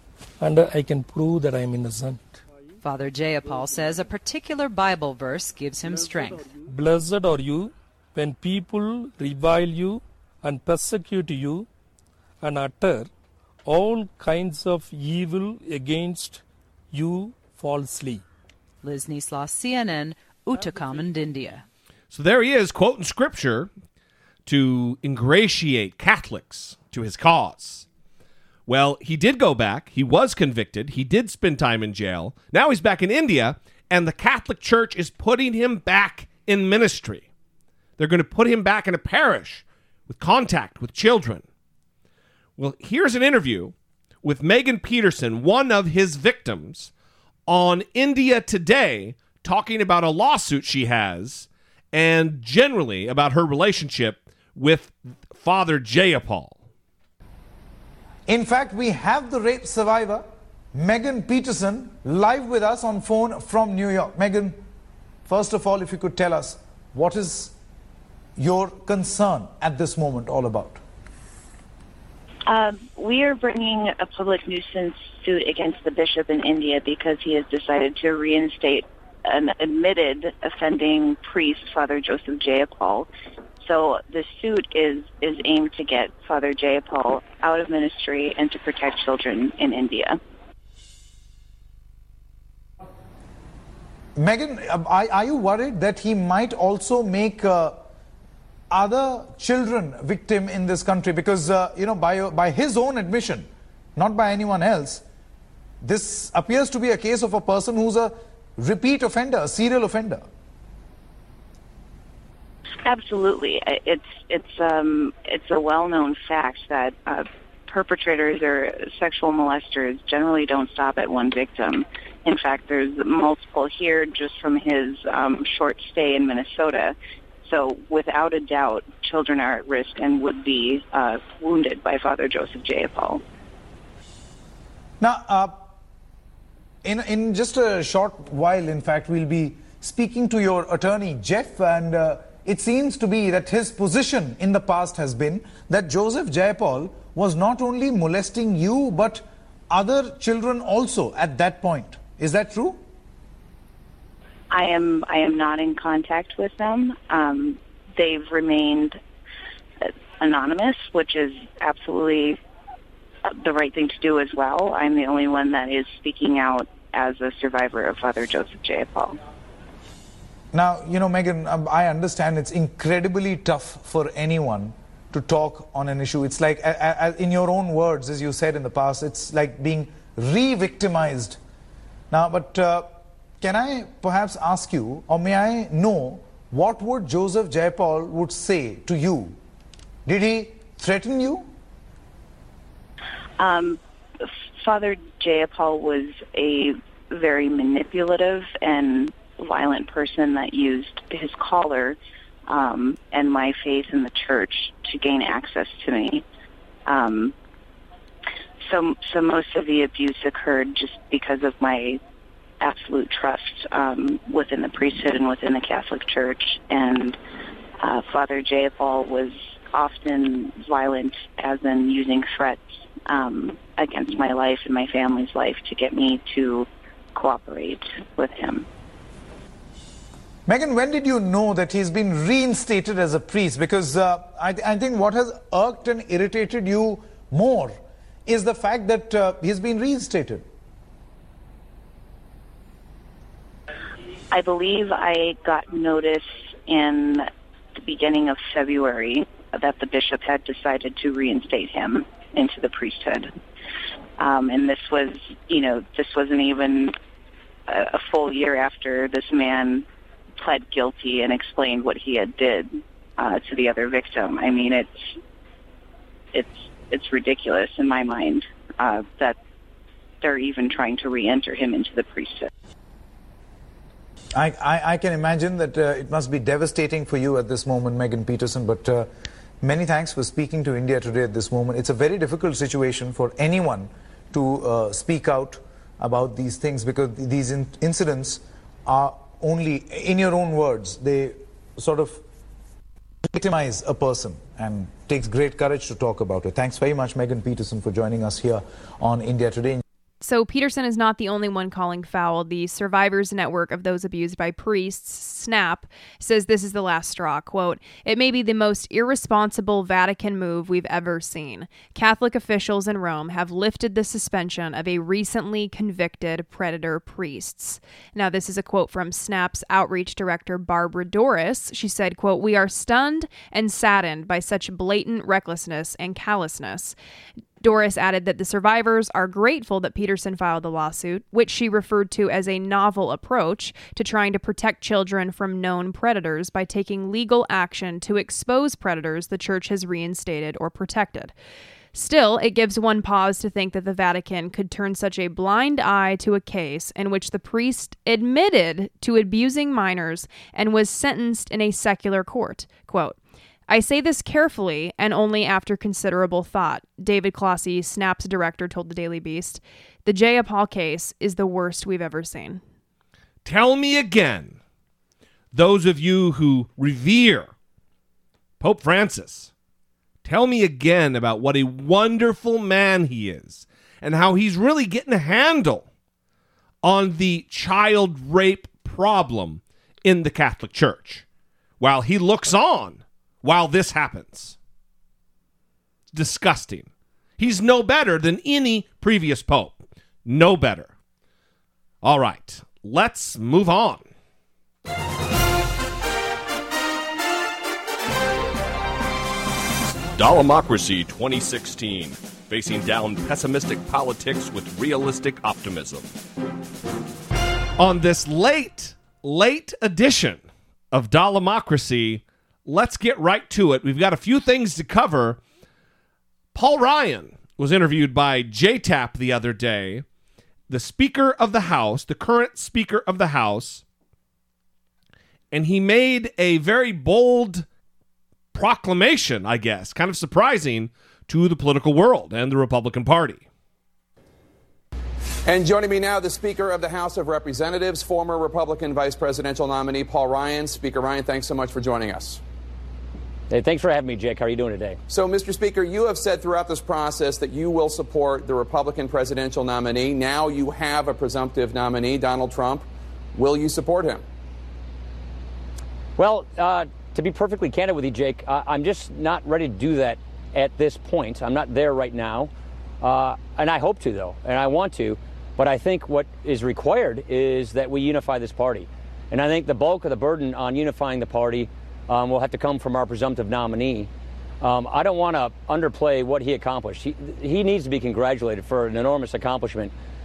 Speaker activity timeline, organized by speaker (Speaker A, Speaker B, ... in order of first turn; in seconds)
Speaker A: 0.4-2.4, 6.5-11.7, 12.4-13.1, 13.6-18.2
Speaker B: 2.8-6.5, 18.8-21.6
Speaker C: 22.1-23.7, 24.4-27.9, 28.7-37.3, 38.0-41.4, 42.6-46.9, 47.5-56.6, 363.4-364.6, 365.5-367.5, 368.6-369.5, 370.2-375.9, 376.8-381.2, 381.8-384.6, 386.1-390.9, 392.0-394.1, 400.1-406.1, 407.8-415.4, 416.5-420.0, 420.7-423.8, 425.5-427.6, 428.5-433.4
Speaker D: 58.3-64.6, 65.3-67.5, 68.4-70.8, 94.2-97.8, 98.7-105.0, 105.8-110.2, 135.0-135.7, 136.8-152.8, 170.5-181.4, 182.1-189.4, 190.1-191.5, 230.5-240.4, 274.4-279.1, 279.6-292.2, 293.3-299.8
Speaker E: 72.5-83.1, 83.6-90.2, 112.8-133.2, 154.5-159.0, 159.8-162.4, 163.3-169.2, 193.4-193.8, 194.6-202.0, 202.5-206.2, 206.9-207.3, 208.7-212.0, 212.6-217.2, 217.8-228.7, 244.3-253.3, 254.2-256.9, 257.7-259.9, 260.4-264.9, 266.3-269.4, 270.2-272.5
Speaker F: 300.2-326.9, 327.6-341.3, 341.9-353.2, 353.7-362.6
Speaker G: 435.4-442.4, 445.1-454.2
Speaker H: 443.5-445.0, 456.2-462.5, 463.0-474.1, 474.6-479.9